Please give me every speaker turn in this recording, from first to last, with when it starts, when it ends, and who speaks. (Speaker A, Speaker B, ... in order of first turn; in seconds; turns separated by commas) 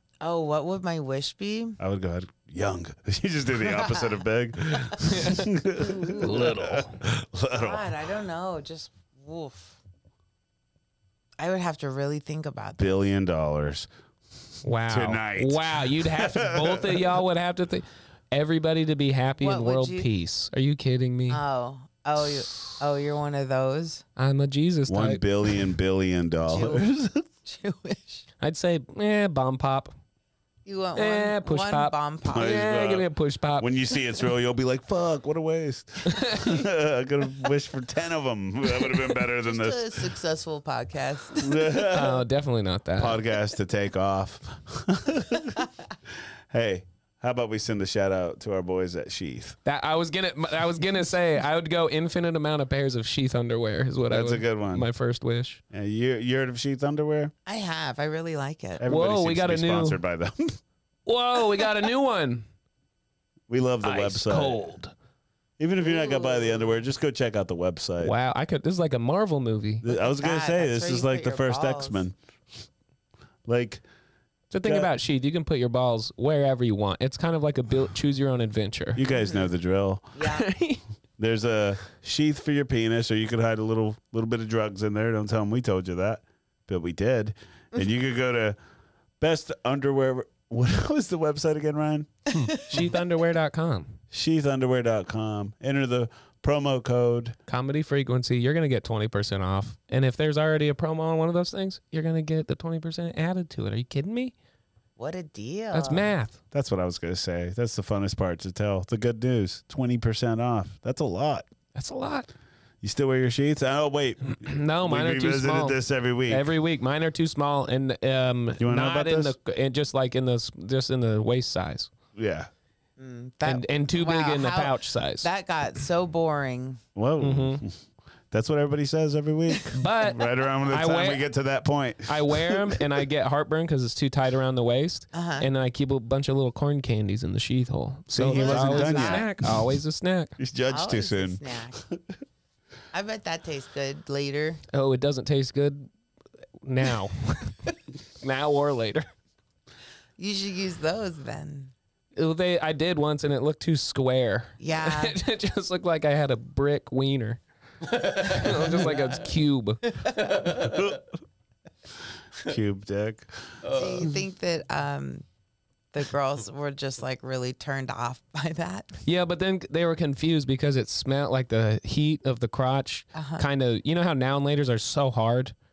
Speaker A: 0.2-1.8, Speaker B: 1.8-8.0, Speaker A: 3.6-4.2, Speaker C: 5.1-5.5, Speaker A: 5.8-6.5, Speaker C: 6.1-7.0, Speaker A: 7.5-9.8, Speaker A: 11.4-12.9, Speaker B: 12.8-13.9, Speaker C: 14.6-21.4, Speaker B: 14.9-17.1, Speaker A: 19.4-20.1, Speaker A: 21.3-24.0, Speaker C: 24.2-25.2, Speaker B: 24.9-27.2, Speaker A: 26.4-26.9, Speaker A: 27.4-28.3, Speaker C: 28.4-29.9, Speaker A: 30.6-32.5, Speaker C: 30.9-33.7, Speaker B: 32.3-33.1, Speaker B: 33.6-40.0, Speaker C: 36.0-36.5, Speaker A: 39.4-41.6, Speaker B: 41.3-42.2, Speaker C: 41.9-43.2, Speaker B: 43.0-45.7, Speaker B: 46.5-49.6, Speaker C: 49.6-55.6, Speaker B: 54.1-54.9, Speaker B: 55.7-57.3, Speaker A: 57.5-58.8, Speaker B: 58.8-60.6, Speaker C: 58.9-60.0, Speaker C: 61.0-62.4, Speaker B: 63.5-64.6, Speaker C: 63.8-64.9, Speaker B: 65.6-68.1, Speaker A: 65.8-66.8, Speaker C: 68.0-69.8, Speaker B: 69.8-72.2, Speaker A: 69.8-72.0, Speaker B: 73.5-73.8, Speaker C: 74.5-79.0, Speaker B: 74.6-74.9, Speaker B: 79.0-80.1, Speaker A: 79.1-79.4, Speaker A: 80.1-80.5, Speaker C: 80.2-80.8, Speaker B: 81.2-88.6, Speaker B: 89.2-92.1, Speaker C: 92.6-94.0, Speaker B: 94.1-97.3, Speaker C: 97.5-104.3, Speaker A: 105.0-106.1, Speaker C: 105.7-106.4, Speaker B: 106.5-111.5, Speaker C: 111.7-112.3, Speaker B: 112.8-116.5, Speaker C: 114.3-121.9, Speaker B: 118.6-119.3, Speaker B: 122.2-122.5, Speaker A: 123.0-126.8, Speaker C: 123.4-125.3, Speaker B: 127.0-132.8, Speaker C: 127.2-127.6, Speaker C: 129.7-131.2, Speaker C: 132.1-140.3, Speaker A: 135.1-135.4, Speaker B: 138.1-139.7, Speaker A: 138.2-139.3, Speaker B: 140.4-142.0, Speaker A: 140.7-141.8, Speaker A: 142.9-144.6, Speaker C: 144.7-145.9, Speaker C: 146.6-149.1, Speaker A: 150.2-151.7, Speaker C: 152.2-157.4, Speaker A: 154.6-155.2, Speaker C: 158.0-160.0, Speaker B: 160.6-161.0, Speaker B: 162.4-164.0, Speaker A: 163.7-165.2, Speaker A: 165.9-169.0, Speaker C: 169.0-175.5, Speaker A: 173.1-173.4